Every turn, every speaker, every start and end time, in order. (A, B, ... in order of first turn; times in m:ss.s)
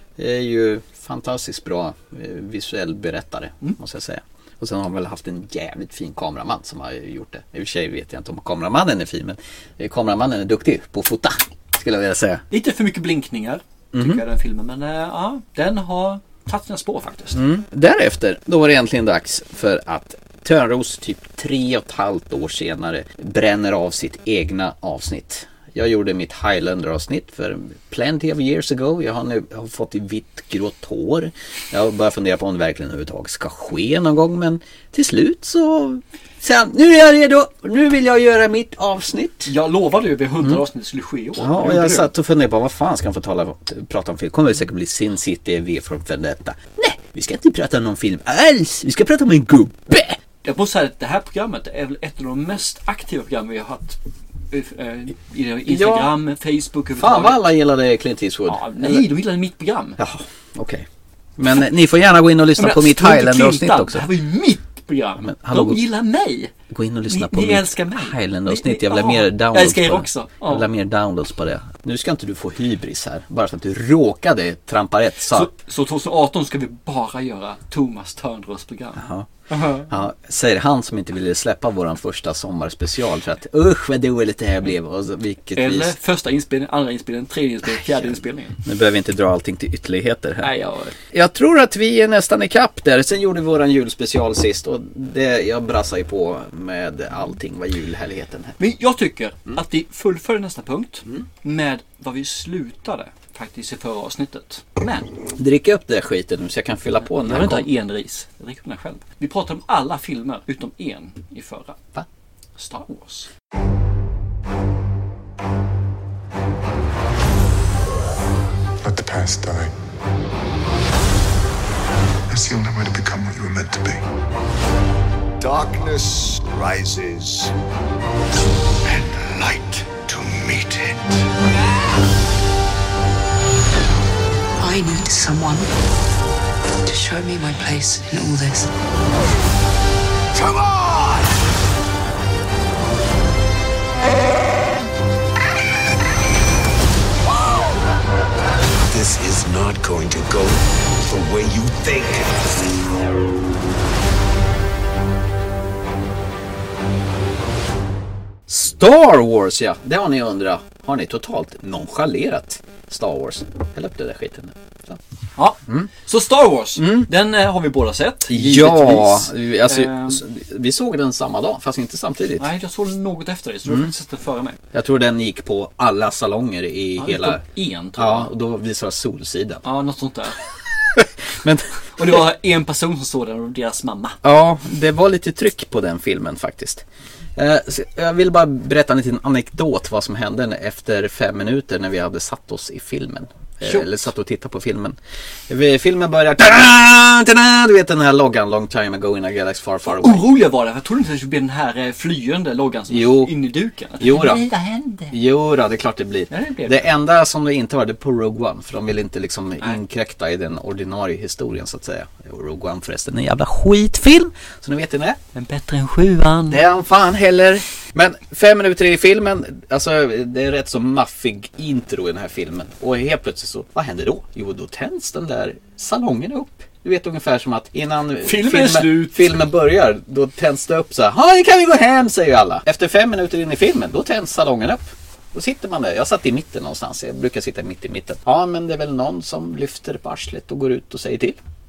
0:00.2-0:12.4 A
0:12.5-0:17.4 B
0:13.9-0:14.2 A
0:17.3-0:39.5 A
0:39.4-0:42.1 B
0:41.4-0:50.2 A
0:50.4-0:54.0 B
0:54.5-0:57.4 B
0:55.7-0:56.1 A
0:57.0-0:59.1 A
0:58.4-1:00.0 B
1:00.0-1:00.8 A
1:01.4-1:04.0 A
1:02.6-1:06.5 B
1:05.2-1:05.8 A
1:06.7-1:15.5 A
1:07.1-1:10.7 B
1:15.3-1:19.9 B
1:19.0-1:19.3 A
1:19.9-1:25.9 A
1:25.5-1:28.6 B
1:27.7-1:30.5 A
1:30.4-1:30.9 B
1:31.1-1:38.6 A
1:38.6-1:45.1 B
1:45.4-1:47.7 A
1:47.0-1:51.8 B
1:52.6-1:53.3 B
1:58.8-1:59.7 C
2:02.3-2:04.0 C
2:05.4-2:07.5 D
2:08.8-2:11.3 D
2:14.6-2:15.7 E
2:16.8-2:18.7 E
2:20.3-2:21.3 D
2:27.2-2:27.8 D
2:28.9-2:32.7 D
2:38.5-2:45.0 A
2:45.4-2:50.2 B
2:46.8-2:47.1 A
2:48.3-2:52.5 A
2:52.4-2:54.6 B
2:54.7-2:57.4 A
2:57.0-2:58.3 B
2:58.0-2:59.6 A
2:59.6-3:00.4 B
3:01.4-3:01.8 A
3:02.0-3:04.2 B
3:04.2-3:06.8 A
3:07.4-3:15.0 A
3:13.6-3:13.9 B
3:15.5-3:20.3 A
3:19.8-3:25.2 B
3:22.9-3:23.3 A
3:24.0-3:24.4 A
3:25.1-3:35.2 A
3:26.3-3:26.9 B
3:35.3-3:36.6 B
3:36.5-4:01.4 A
3:48.2-3:49.4 B